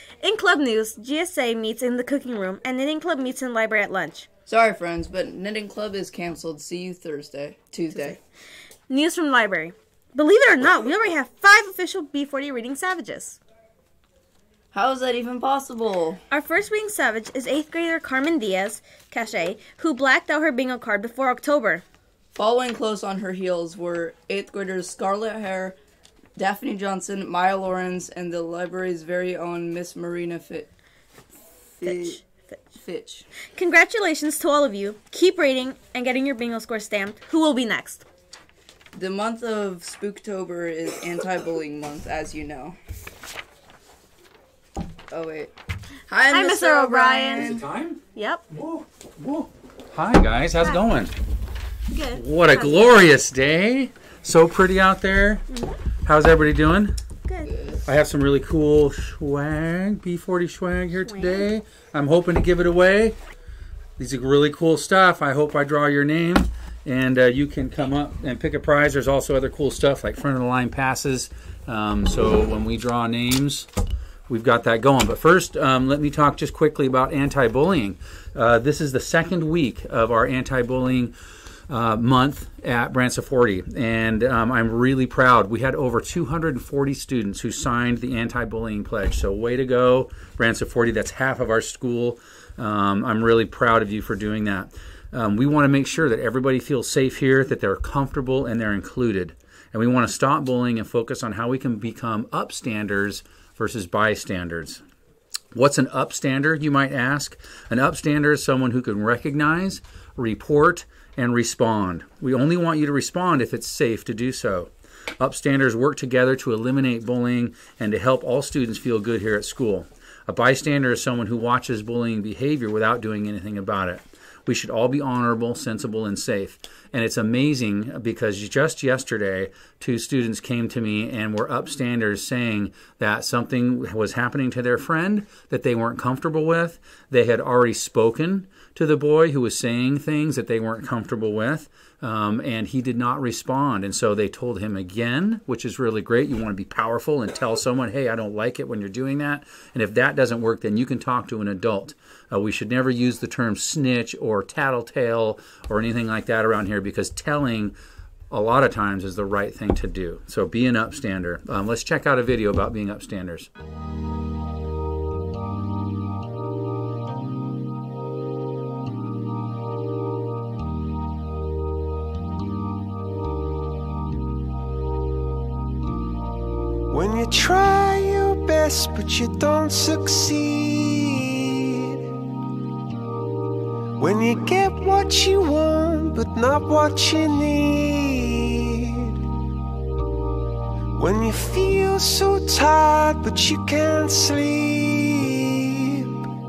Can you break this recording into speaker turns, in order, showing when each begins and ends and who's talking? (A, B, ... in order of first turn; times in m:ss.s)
0:00.2-0:04.3 A
0:04.5-0:08.2 B
0:08.9-0:13.4 A
0:14.7-0:16.2 B
0:16.3-0:21.8 A
0:22.3-0:25.8 B
0:26.4-0:30.7 B
0:31.8-0:33.3 B
0:31.8-0:32.2 A
0:33.5-0:38.1 A
0:38.9-0:42.8 B
0:45.1-0:45.5 B
0:46.1-0:47.6 B
0:46.3-0:47.5 A
0:47.3-0:51.1 C
0:48.2-0:48.4 A
0:51.9-0:53.0 A
0:52.1-0:55.5 C
0:55.5-0:55.8 A
0:56.0-0:57.0 C
0:57.3-0:57.5 A
0:57.5-0:57.8 B
0:57.9-1:03.2 C
1:01.0-1:01.5 A
1:04.0-1:13.7 C
1:14.3-1:21.1 C
1:21.7-1:44.8 C
1:45.5-2:37.8 C
2:38.3-2:43.5 C
2:56.9-3:02.0 D
3:04.0-3:09.2 D
3:11.0-3:16.3 D